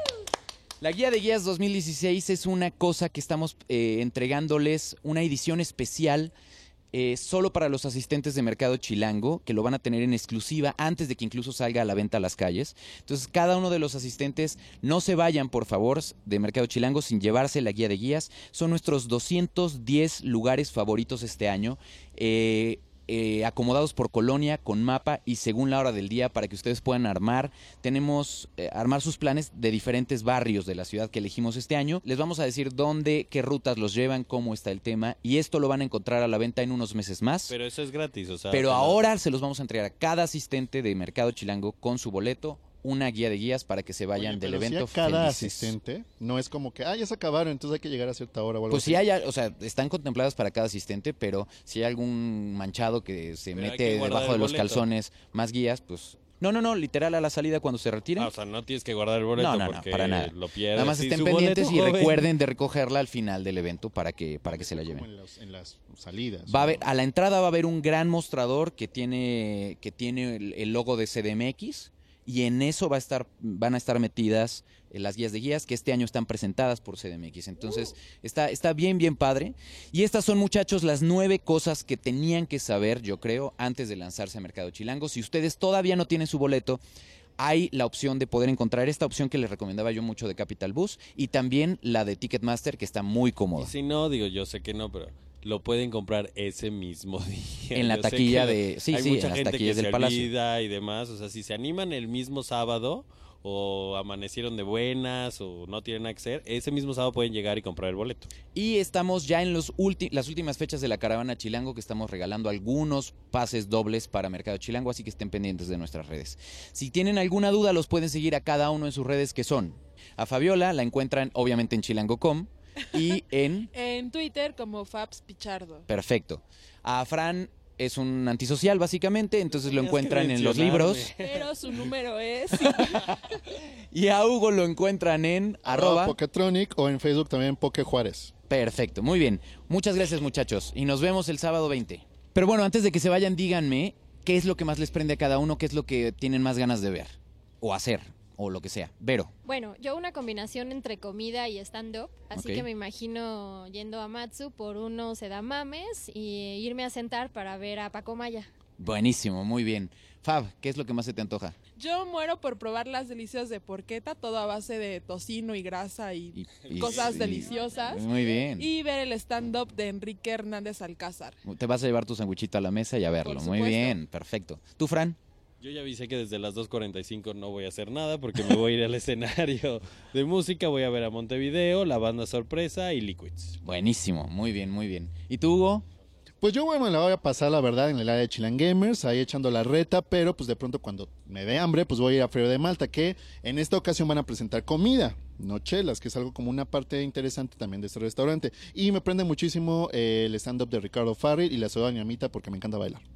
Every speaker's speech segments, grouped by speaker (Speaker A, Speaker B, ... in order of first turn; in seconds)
Speaker A: 0.8-6.3, 6.9-37.5, 38.5-45.8, 48.7-58.3, 59.4-65.0, 66.5-86.8, 87.4-93.7, 97.7-100.3, 108.5-123.7, 125.9-131.1, 132.6-136.2, 138.5-149.3, 152.3-152.7, 158.8-161.6, 166.3-168.7, 171.4-175.2, 183.6-185.8
Speaker B: 37.5-39.0, 53.5-54.8, 58.2-62.3, 93.6-108.3, 129.7-131.5, 175.6-183.6
Speaker C: 44.1-49.0, 64.5-66.8, 135.7-138.3, 186.4-203.0
Speaker D: 123.7-125.8, 131.2-133.1, 161.8-168.0, 168.6-171.3, 173.3-173.9
Speaker E: 149.4-158.5